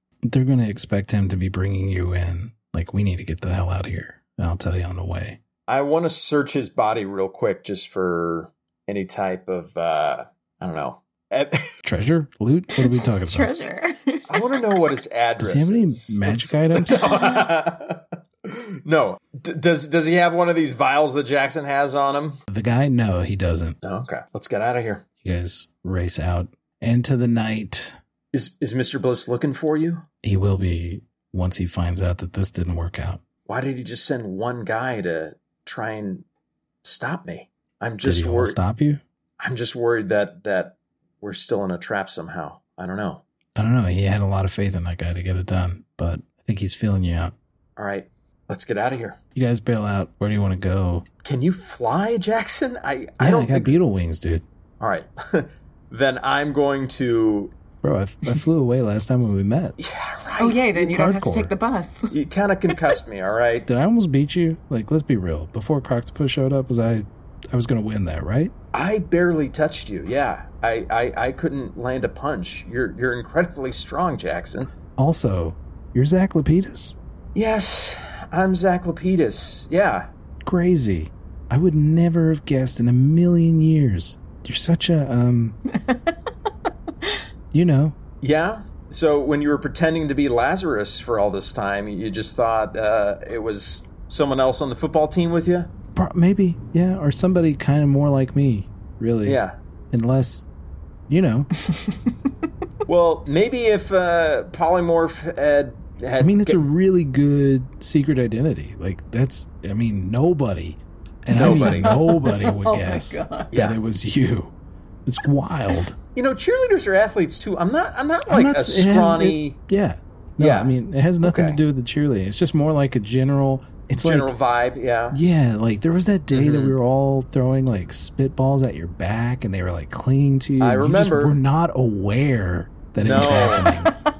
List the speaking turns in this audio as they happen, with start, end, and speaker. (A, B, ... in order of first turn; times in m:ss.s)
0:00.2-0:05.4 A
0:05.7-0:11.7 B
0:11.8-0:13.5 A
0:12.8-0:14.7 C
0:14.3-0:22.4 B
0:15.4-0:17.1 A
0:17.0-0:17.4 C
0:22.5-0:23.8 A
0:23.8-0:25.0 B
0:25.2-0:28.0 A
0:28.3-0:30.0 B
0:30.2-0:33.2 A
0:33.5-0:36.2 B
0:36.8-0:38.6 B
0:38.0-0:39.0 A
0:39.4-0:43.2 B
0:43.6-0:47.3 A
0:47.8-0:49.2 B
0:49.3-0:51.0 A
0:51.2-0:53.7 B
0:53.2-0:54.4 A
0:54.8-0:57.5 B
0:57.8-0:59.8 A
0:59.8-1:00.8 B
1:00.4-1:02.1 C
1:00.8-1:01.5 A
1:02.1-1:03.7 B
1:03.7-1:08.5 A
1:08.7-1:14.7 B
1:15.0-1:17.0 A
1:17.3-1:20.1 B
1:20.4-1:25.6 A
1:25.7-1:26.2 C
1:27.5-1:28.0 A
1:28.2-1:35.7 B
1:35.9-1:39.4 A
1:39.2-1:39.5 B
1:39.9-1:40.4 A
1:41.1-1:41.5 A
1:41.7-1:42.1 C
1:42.9-1:46.6 B
1:46.2-1:54.5 A
1:51.3-1:51.9 B
1:51.3-1:53.5 C
1:53.5-1:53.8 B
1:55.0-1:56.0 A
1:56.1-1:59.6 B
1:58.3-2:04.3 A
2:00.4-2:01.6 B
2:04.0-2:05.2 B
2:05.1-2:13.9 A
2:06.3-2:06.8 B
2:10.6-2:11.4 B
2:13.0-2:13.7 B
2:13.4-2:13.8 C